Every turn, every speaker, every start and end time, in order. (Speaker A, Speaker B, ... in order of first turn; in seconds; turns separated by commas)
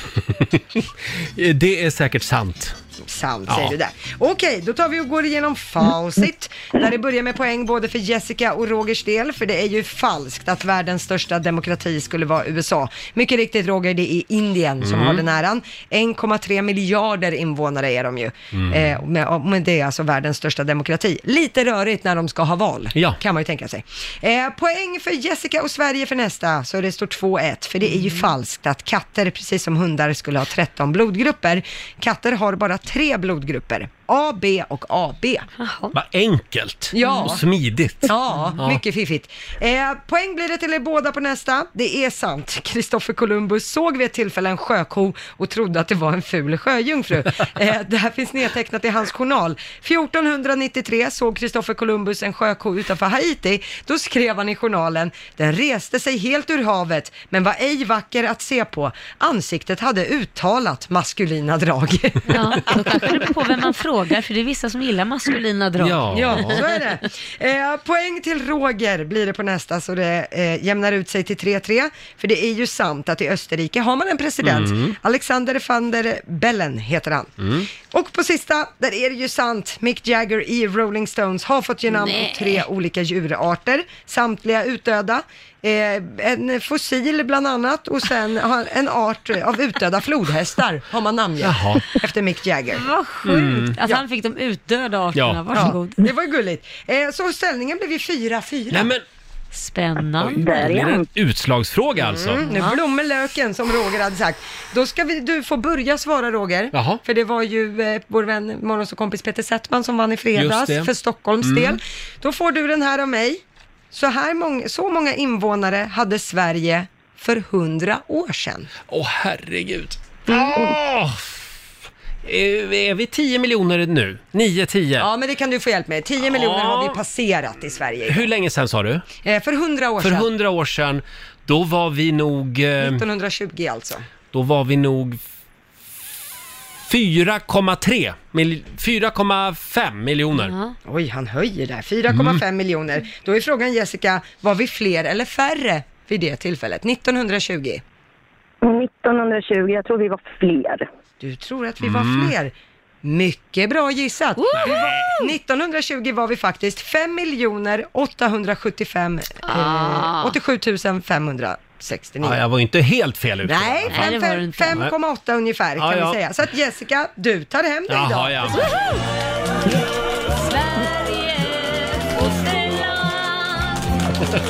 Speaker A: 0.3-2.8, Speaker B: 3.0-35.5, Speaker A: 3.5-3.7, Speaker A: 14.8-15.2, Speaker A: 18.5-18.8, Speaker C: 35.6-36.0, Speaker A: 35.9-38.8, Speaker B: 36.9-37.4, Speaker C: 37.0-37.3, Speaker B: 38.0-63.3, Speaker C: 62.3-66.5, Speaker A: 65.8-66.6, Speaker B: 66.1-92.8, Speaker A: 74.4-75.0, Speaker A: 77.4-77.7, Speaker C: 81.9-82.6, Speaker A: 91.4-91.8, Speaker C: 92.7-96.1, Speaker A: 93.2-93.7, Speaker A: 95.1-95.4, Speaker B: 95.5-98.9, Speaker A: 98.7-99.0, Speaker C: 99.5-100.6, Speaker A: 100.2-102.4, Speaker D: 100.4-101.0, Speaker B: 102.0-118.7, Speaker C: 102.4-102.8, Speaker A: 106.7-107.0, Speaker A: 110.3-110.9, Speaker A: 111.4-111.8, Speaker A: 118.9-121.4, Speaker A: 122.2-125.1, Speaker B: 125.0-128.3, Speaker A: 126.3-127.0, Speaker A: 128.1-129.0, Speaker B: 129.2-130.3, Speaker A: 130.0-133.0, Speaker B: 132.8-134.1, Speaker A: 134.3-135.2, Speaker A: 136.8-140.5, Speaker C: 140.3-140.8, Speaker B: 140.8-147.8, Speaker A: 142.1-142.4, Speaker D: 148.6-150.9, Speaker B: 151.2-162.4, Speaker A: 151.8-152.3, Speaker C: 154.4-155.3, Speaker A: 154.5-155.1, Speaker C: 159.4-160.3, Speaker A: 162.2-164.1, Speaker B: 163.4-168.5, Speaker C: 163.9-164.8, Speaker A: 165.8-166.2, Speaker A: 167.9-168.7, Speaker C: 170.2-173.9